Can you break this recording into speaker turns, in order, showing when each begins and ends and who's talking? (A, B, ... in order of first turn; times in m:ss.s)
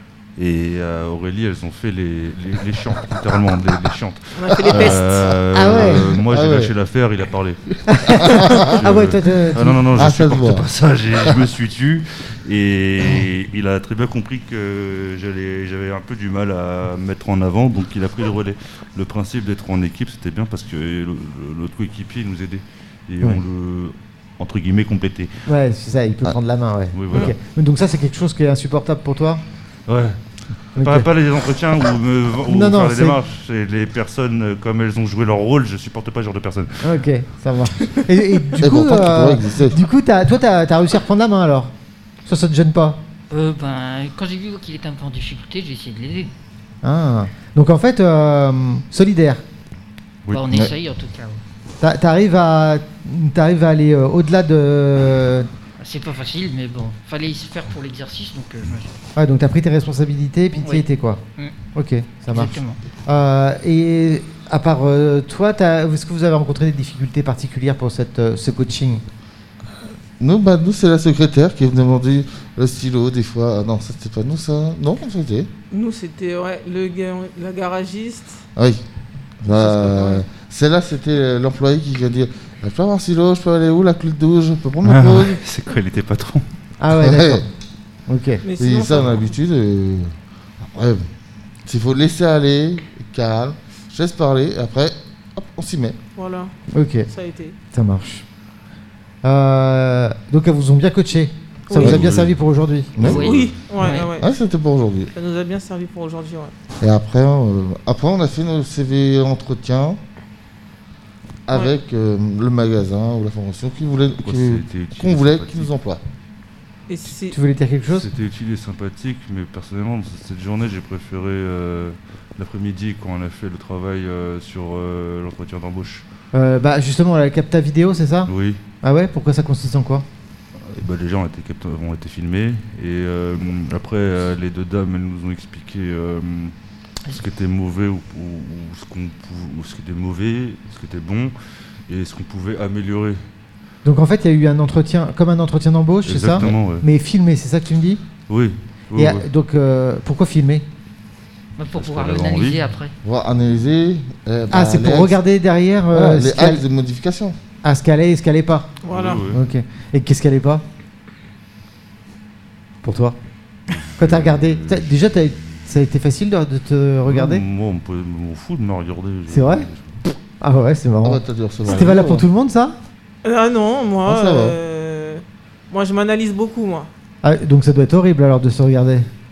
0:00.4-0:25.4 A
0:04.3-0:05.3 B
0:04.7-0:05.0 C
0:05.5-0:06.1 D
0:05.7-0:06.7 C
0:07.9-0:09.8 D
0:08.2-0:08.7 C
0:09.9-0:10.6 C
0:25.4-0:29.4 D
0:26.9-0:27.3 A
0:29.9-0:30.2 A
0:30.7-0:37.0 A
0:30.8-0:31.1 D
0:32.4-0:33.2 D
0:36.8-0:41.7 D
0:38.6-0:39.8 C
0:42.3-0:43.0 D
0:43.3-0:46.3 E
0:46.8-0:49.4 D
0:50.3-0:50.5 A
0:50.3-0:51.4 E
0:51.8-0:55.5 D
0:55.8-0:58.9 E
0:59.2-1:01.2 D
1:00.6-1:00.9 E
1:01.7-1:09.0 D
1:02.3-1:02.8 E
1:10.2-1:15.5 C
1:15.7-1:18.4 B
1:18.6-1:18.8 C
1:19.4-1:25.4 C
1:19.5-1:20.2 B
1:24.8-1:26.5 A
1:26.8-1:27.4 D
1:26.9-1:27.4 C
1:28.1-1:28.4 D
1:28.4-1:29.3 B
1:28.6-1:31.0 C
1:31.6-1:36.0 C
1:36.2-1:36.5 B
1:36.7-1:37.1 D
1:37.1-1:37.6 B
1:37.7-1:38.2 D
1:39.2-1:43.0 D
1:41.7-1:41.9 B
1:41.8-1:42.3 A
1:41.8-1:42.1 C
1:43.0-1:43.3 C
1:43.0-1:43.5 A
1:43.0-1:44.1 E
1:43.1-1:44.3 B
1:44.2-1:45.1 C
1:45.1-1:46.5 B
1:46.8-1:50.0 C
1:51.5-1:56.0 C
1:54.2-1:55.7 A
1:56.9-1:57.4 B
1:57.3-1:58.1 D
1:57.9-2:06.0 A
2:06.3-2:10.0 D
2:08.3-2:08.6 A
2:10.6-2:16.6 A
2:17.1-2:21.3 A
2:21.9-2:23.2 A
2:23.8-2:28.0 D
2:26.0-2:26.9 A
2:28.3-2:29.2 A
2:28.9-2:30.6 D
2:31.6-2:32.9 E
2:31.7-2:32.6 A
2:33.0-2:35.2 C
2:34.5-2:36.6 D
2:35.9-2:37.4 C
2:37.6-2:38.7 D
2:38.8-2:39.2 B
2:38.9-2:39.4 A
2:39.3-2:40.6 D
2:42.8-2:43.2 D
2:43.7-2:44.9 A
2:44.0-2:47.4 D
2:47.0-2:49.9 A
2:49.3-2:52.8 D
2:51.0-2:52.2 C
2:53.2-2:56.9 B
2:54.0-2:54.6 C
2:57.2-2:59.1 D